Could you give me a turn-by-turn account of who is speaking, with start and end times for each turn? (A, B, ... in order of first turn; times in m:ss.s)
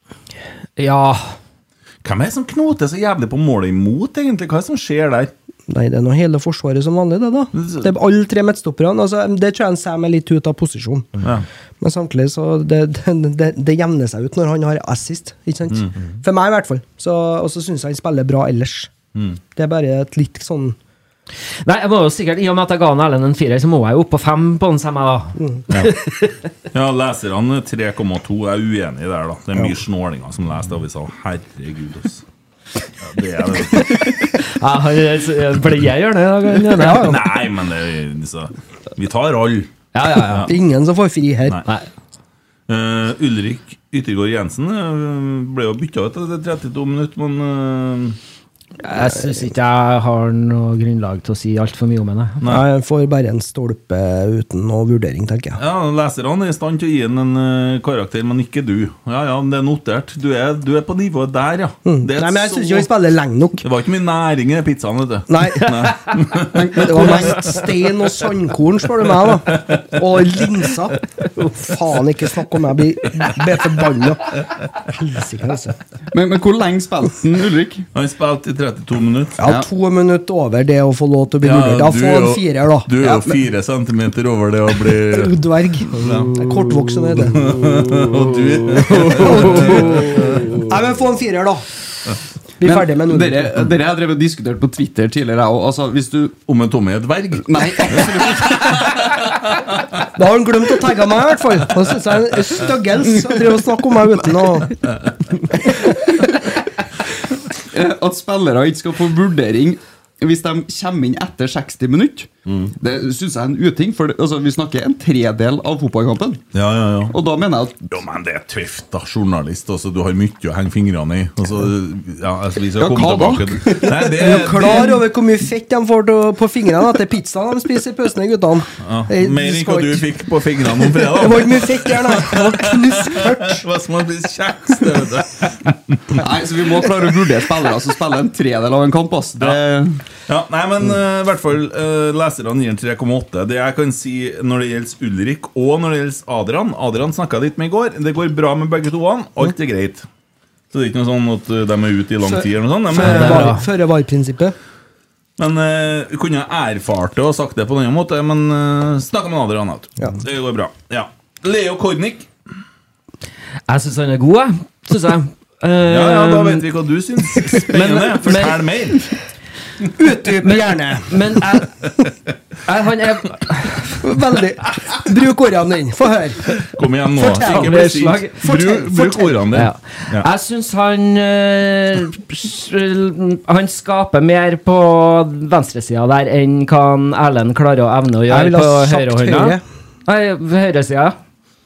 0:00.8-0:01.4 A
0:02.0-0:05.3 B
0:05.7-0:11.2 C
0:07.5-0:07.9 B
0:11.2-0:11.4 B
0:11.8-0:18.9 C
0:19.1-0:19.4 B
0:19.5-0:20.8 C
0:21.6-0:26.3 A
0:26.7-0:32.2 B
0:33.0-0:34.1 B
0:34.4-0:37.1 A
0:36.8-0:37.2 C
0:36.9-0:40.5 B
0:39.9-0:40.5 A
0:40.5-0:41.6 C
0:42.7-0:48.2 B
0:48.8-0:52.4 A
0:52.4-0:55.6 C
0:55.6-1:02.9 B
1:01.8-1:03.6 C
1:03.6-1:07.3 B
1:05.3-1:05.7 C
1:06.5-1:07.5 D
1:06.8-1:15.8 C
1:16.1-1:17.9 D
1:17.9-1:19.4 B
1:19.4-1:23.3 C
1:19.4-1:19.7 D
1:21.4-1:25.4 B
1:25.1-1:27.5 C
1:26.0-1:26.4 B
1:27.3-1:30.4 B
1:29.1-1:31.6 C
1:32.6-1:33.5 C
1:32.6-1:36.3 D
1:36.5-1:39.0 B
1:37.4-1:38.9 D
1:40.1-1:44.8 C
1:45.6-1:45.9 C
1:47.7-1:56.4 D
1:56.5-1:57.1 B
1:57.1-1:57.9 D
1:57.9-2:05.0 B
2:02.8-2:04.4 D
2:04.1-2:10.0 C
2:08.8-2:16.2 B
2:10.8-2:13.6 C
2:16.2-2:20.0 D
2:20.3-2:30.0 B
2:30.7-2:33.6 B
2:32.2-2:34.5 C
2:33.0-2:33.6 A
2:35.4-2:42.3 B
2:43.7-2:46.6 A
2:45.8-2:49.1 B
2:47.7-2:48.6 A
2:49.9-2:51.4 C
2:50.4-2:51.7 A
2:52.6-2:54.0 A
2:54.0-2:57.9 C
2:56.7-3:00.3 B
2:57.4-2:58.4 A
2:58.4-2:59.4 C
2:59.5-3:11.2 A
3:08.3-3:09.6 C